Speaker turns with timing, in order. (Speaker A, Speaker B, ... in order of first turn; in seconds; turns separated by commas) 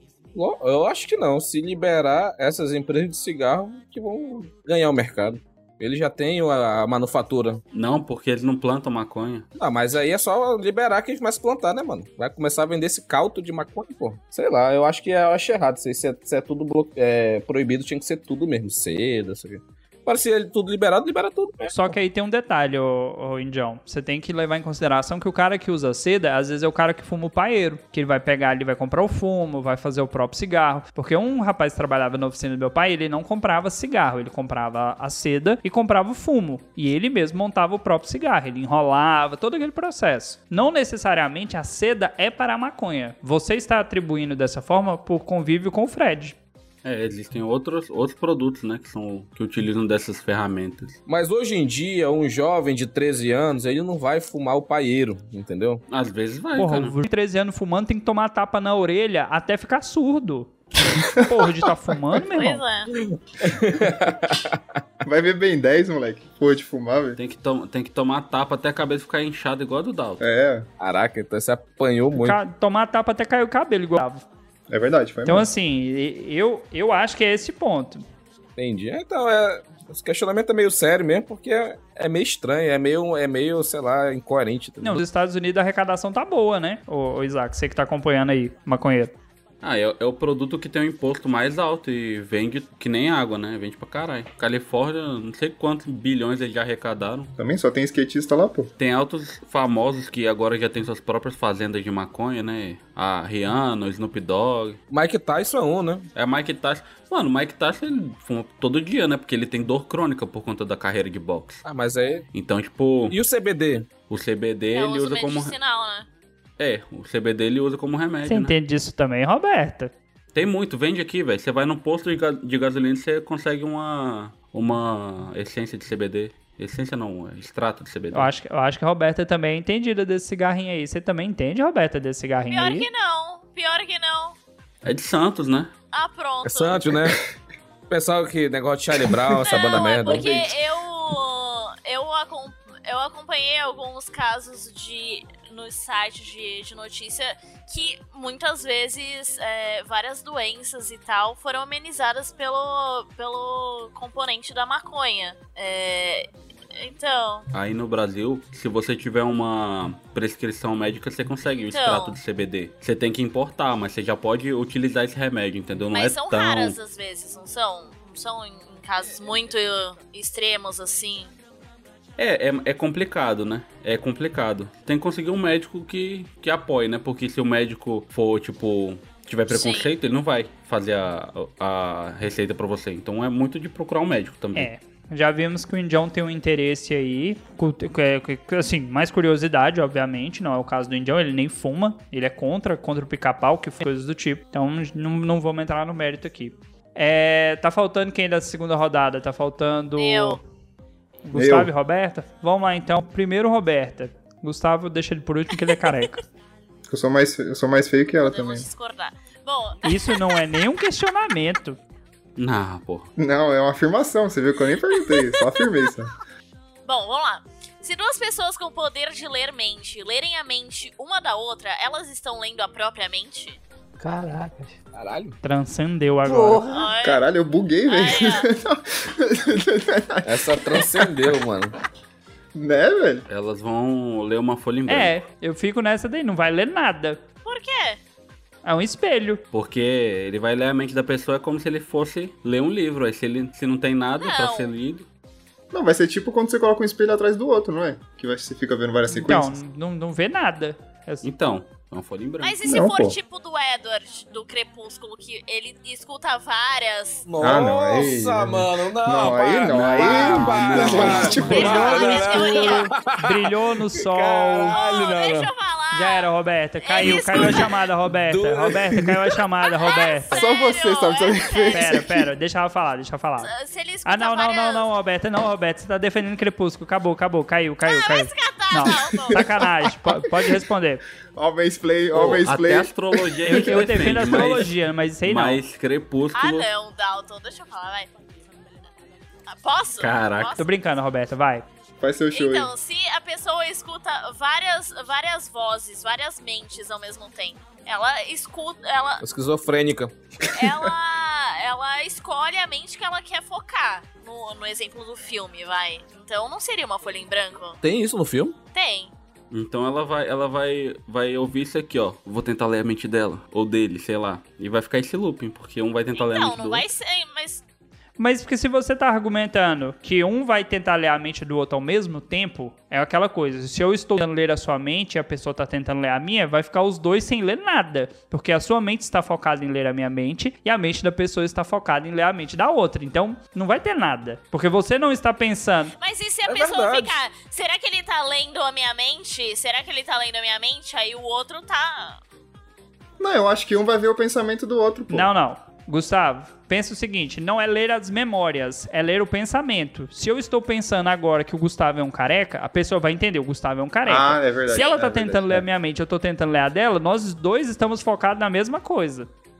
Speaker A: 0.3-7.6, Speaker B: 7.7-9.5, Speaker A: 9.6-21.9, Speaker C: 21.7-46.4, Speaker B: 46.8-51.0, Speaker A: 51.1-55.8, Speaker B: 55.9-57.0, Speaker C: 56.5-60.5, Speaker C: 61.1-62.6, Speaker D: 62.3-62.9, Speaker A: 63.1-64.6, Speaker E: 65.0-67.2, Speaker B: 67.2-70.2, Speaker E: 70.2-70.7, Speaker A: 70.8-72.4, Speaker C: 72.1-74.2, Speaker E: 74.7-75.5, Speaker C: 75.2-78.0, Speaker A: 78.6-85.0, Speaker C: 84.8-89.1, Speaker B: 89.6-97.3, Speaker E: 97.4-98.7, Speaker B: 98.8-104.8, Speaker A: 104.9-106.1, Speaker B: 106.1-111.6, Speaker A: 111.6-112.2, Speaker B: 112.3-113.2, Speaker A: 113.1-113.9, Speaker B: 114.1-115.5, Speaker D: 114.7-116.1, Speaker B: 116.6-118.5, Speaker C: 118.2-119.9, Speaker B: 120.3-128.3, Speaker C: 128.1-132.9, Speaker D: 132.5-134.4, Speaker B: 134.8-135.7, Speaker D: 135.9-136.9, Speaker A: 136.4-137.2, Speaker A: 137.9-140.6, Speaker D: 139.4-157.4, Speaker B: 157.5-166.8, Speaker D: 161.6-162.2, Speaker D: 165.9-171.3, Speaker B: 172.2-184.7, Speaker D: 179.5-179.9, Speaker C: 184.5-200.4, Speaker D: 200.0-200.4, Speaker C: 201.2-206.2, Speaker E: 201.3-201.7, Speaker E: 206.9-208.7, Speaker D: 208.2-210.4, Speaker C: 209.8-211.8, Speaker B: 212.4-213.1, Speaker E: 213.2-216.1, Speaker D: 216.8-223.6, Speaker A: 224.9-225.3, Speaker C: 225.4-226.7, Speaker D: 226.7-227.2, Speaker E: 227.0-231.4, Speaker D: 227.9-228.5, Speaker A: 230.2-231.7, Speaker E: 232.5-233.2, Speaker B: 233.3-235.1, Speaker C: 234.9-237.2, Speaker D: 237.4-238.0, Speaker C: 238.6-239.4, Speaker B: 239.5-245.1, Speaker D: 244.2-244.7, Speaker E: 245.7-249.6, Speaker C: 249.1-251.3, Speaker B: 251.2-252.5, Speaker D: 252.4-257.2, Speaker E: 252.7-253.2, Speaker A: 257.2-265.5, Speaker E: 257.4-262.2, Speaker B: 260.0-261.9, Speaker D: 261.0-262.9, Speaker C: 261.5-264.8, Speaker D: 264.7-266.3, Speaker C: 265.9-270.4, Speaker D: 266.8-267.8, Speaker A: 267.0-269.3, Speaker D: 269.6-271.9, Speaker E: 270.3-272.3, Speaker C: 271.7-273.5, Speaker D: 273.4-274.9, Speaker C: 274.0-281.0, Speaker D: 277.8-279.6, Speaker E: 278.9-279.3, Speaker E: 279.9-280.2, Speaker E: 281.3-284.2, Speaker B: 282.1-286.7, Speaker C: 283.4-285.6, Speaker D: 286.3-288.1, Speaker D: 289.5-290.7, Speaker B: 290.0-290.6, Speaker C: 290.6-291.6, Speaker E: 292.0-292.7, Speaker D: 292.3-299.2, Speaker A: 299.2-300.1, Speaker D: 300.5-307.8, Speaker A: 307.8-308.6, Speaker D: 308.7-309.1, Speaker B: 309.5-316.9, Speaker D: 316.1-317.6, Speaker C: 318.2-335.9, Speaker D: 336.0-342.2, Speaker A: 336.4-337.2, Speaker E: 343.2-345.3, Speaker C: 345.1-359.3, Speaker E: 354.1-355.6